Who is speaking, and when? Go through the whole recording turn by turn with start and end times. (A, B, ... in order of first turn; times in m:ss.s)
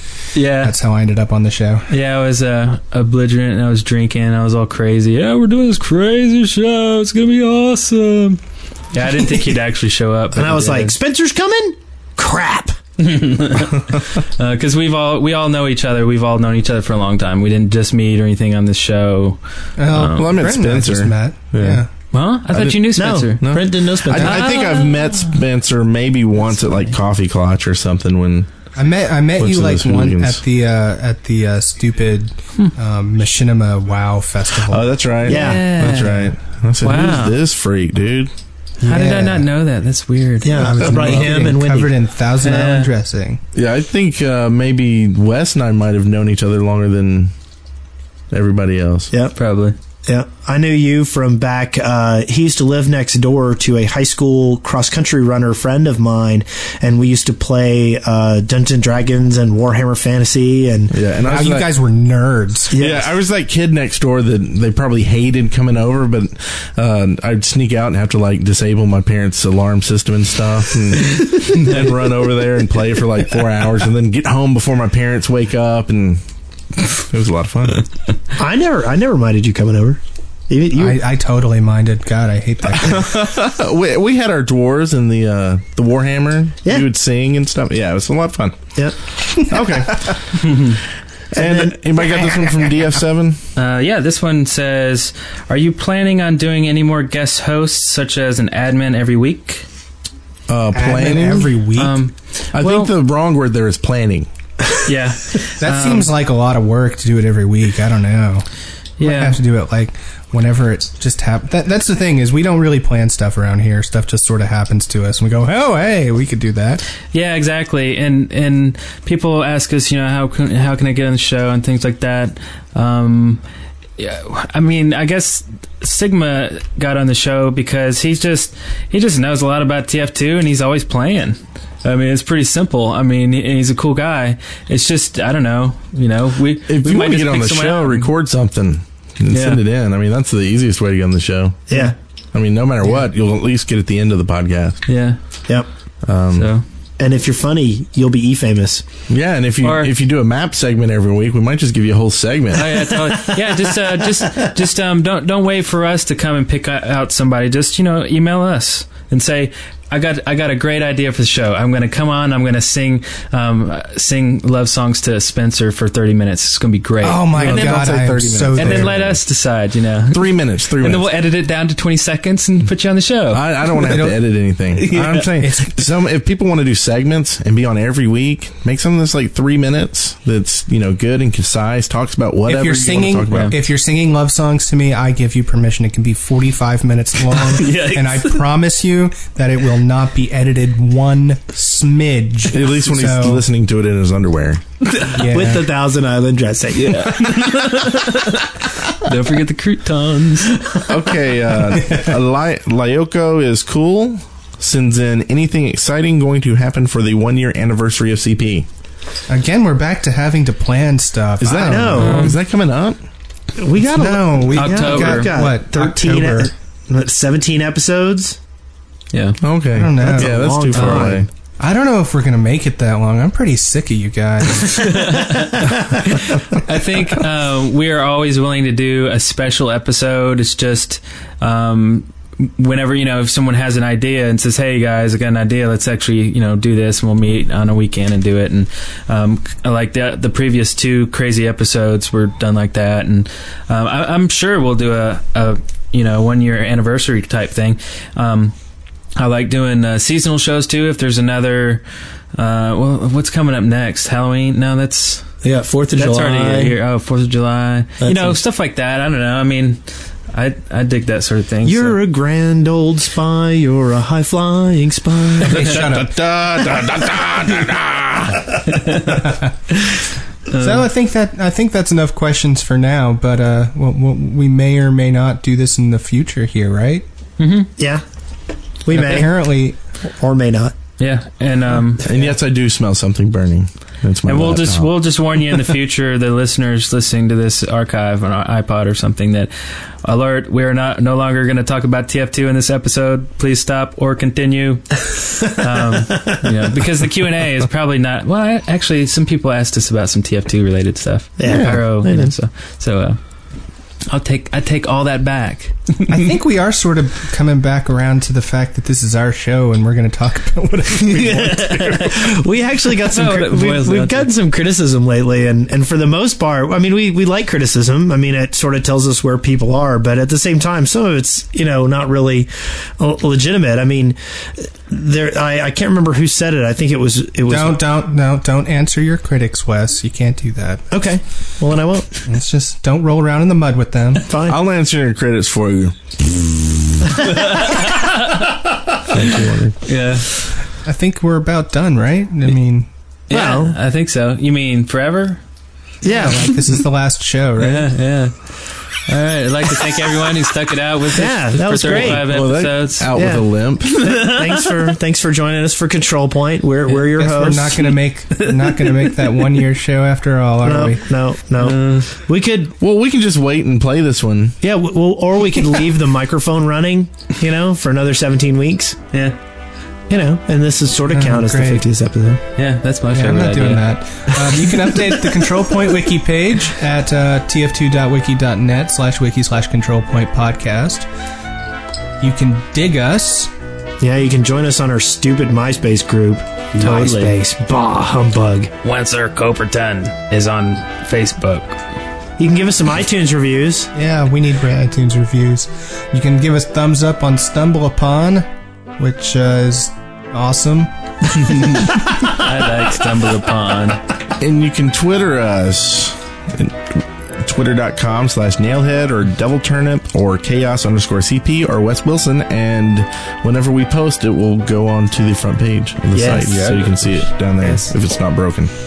0:00.3-0:00.8 A
0:00.5-0:01.9 B
0:01.9-0:08.4 A
0:08.9-0:11.0 A
0:10.3-0:12.8 C
0:13.0-0:19.4 A
0:19.8-0:21.9 B
0:19.9-0:20.2 A
0:20.1-0:21.8 D
0:22.1-0:23.6 A
0:22.5-0:28.5 D
0:23.0-0:24.5 C
0:24.2-0:25.3 A
0:24.2-0:24.5 B
0:28.8-0:35.0 B
0:29.4-0:30.4 D
0:34.7-0:38.3 D
0:35.2-0:35.7 C
0:35.3-0:36.2 A
0:35.8-0:36.3 B
0:36.8-0:37.4 A
0:38.8-0:39.5 B
0:38.8-0:40.9 A
0:40.4-0:41.9 C
0:40.5-0:43.4 B
0:40.8-0:41.4 D
0:42.4-0:42.9 A
0:43.5-0:47.3 D
0:48.3-0:49.1 D
0:49.4-0:49.8 A
0:50.1-1:01.4 C
1:00.9-1:01.7 D
1:01.2-1:02.8 B
1:02.7-1:03.1 C
1:02.8-1:16.2 D
1:16.8-1:17.8 D
1:18.4-1:21.0 C
1:20.8-1:23.2 B
1:22.8-1:28.7 D
1:29.4-1:30.7 D
1:30.4-1:30.8 A
1:31.3-1:32.7 C
1:31.3-1:33.4 D
1:33.6-1:39.7 A
1:40.5-1:41.5 D
1:40.7-1:42.0 B
1:41.8-1:42.9 A
1:42.5-1:44.3 D
1:44.8-1:46.1 A
1:45.6-1:48.5 B
1:49.0-1:49.4 A
1:49.0-1:56.8 B
1:57.1-2:03.4 A
2:04.0-2:18.1 A
2:16.7-2:21.8 D
2:19.3-2:19.6 A
2:21.7-2:22.0 C
2:22.3-2:24.8 D
2:24.9-2:25.2 A
2:26.0-2:26.5 D
2:26.3-2:26.6 A
2:27.0-2:28.8 C
2:29.1-2:32.9 D
2:29.6-2:29.9 A
2:32.5-2:47.9 A
2:47.0-2:49.0 B
2:47.4-2:49.2 D
2:48.5-2:54.0 A
2:50.1-2:51.1 D
2:53.3-3:03.6 D
2:53.9-2:54.2 B
2:54.8-2:55.3 A
2:55.4-2:55.8 B
3:02.5-3:13.5 B
3:03.3-3:03.6 A
3:07.3-3:08.4 A
3:12.5-3:14.6 D
3:15.1-3:15.7 B
3:15.2-3:17.7 C
3:16.7-3:20.6 A
3:20.9-3:28.7 D
3:29.3-3:32.1 B
3:31.4-3:33.0 D
3:31.6-3:32.4 C
3:32.0-3:32.4 A
3:33.6-3:38.4 C
3:33.8-3:36.5 B
3:34.5-3:35.3 A
3:39.1-3:39.4 A
3:39.4-3:41.3 D
3:39.7-3:45.2 B
3:40.0-3:41.3 C
3:44.8-4:08.6 A
3:45.2-3:46.0 C
4:09.2-4:11.8 A
4:12.3-4:15.3 A
4:15.4-4:16.8 C
4:16.0-4:22.0 A
4:18.0-4:18.4 C
4:21.6-4:25.8 C
4:25.4-4:26.1 B
4:25.6-4:28.6 D
4:28.7-4:30.9 A
4:29.0-4:29.5 B
4:30.6-4:37.0 B
4:37.4-4:37.7 A
4:37.8-4:38.0 C
4:38.8-4:39.3 C
4:38.9-4:39.8 B
4:40.0-4:40.7 C
4:41.0-4:42.0 A
4:42.0-4:44.9 D
4:44.3-4:49.5 A
4:50.0-5:03.2 A
4:55.9-4:56.4 C
5:01.4-5:02.3 C
5:01.4-5:01.8 B
5:04.1-5:06.2 A
5:06.1-5:12.2 B
5:11.3-5:12.2 A
5:11.4-5:27.8 C
5:13.1-5:14.3 A
5:27.5-5:30.9 B
5:30.9-5:32.1 C
5:32.3-5:34.3 B
5:34.3-5:34.6 C
5:34.5-5:37.8 D
5:37.2-5:38.6 A
5:39.0-5:39.8 D
5:39.9-5:40.3 A
5:40.8-5:42.9 B
5:43.3-5:45.4 A
5:43.3-5:43.8 C
5:46.0-5:46.7 C
5:46.0-5:47.9 B
5:47.6-5:48.4 A
5:49.1-5:53.1 A
5:51.1-5:52.3 C
5:51.8-5:53.9 D
5:53.1-5:58.0 C
5:54.1-5:54.4 A
5:57.1-6:01.2 B
5:58.4-5:59.0 A
6:00.6-6:02.7 C
6:01.6-6:02.1 A
6:02.8-6:04.6 D
6:04.6-6:09.0 C
6:10.1-6:12.4 C
6:11.1-6:11.9 B
6:12.6-6:13.9 A
6:13.1-6:21.1 B
6:22.2-6:23.5 B
6:24.0-6:28.7 C
6:26.8-6:27.4 A
6:28.8-6:31.8 A
6:32.4-6:33.9 C
6:33.9-6:38.5 B
6:39.0-6:40.9 B
6:41.3-6:44.0 A
6:44.4-6:58.7 D
6:56.1-6:57.3 A
6:57.6-6:57.9 C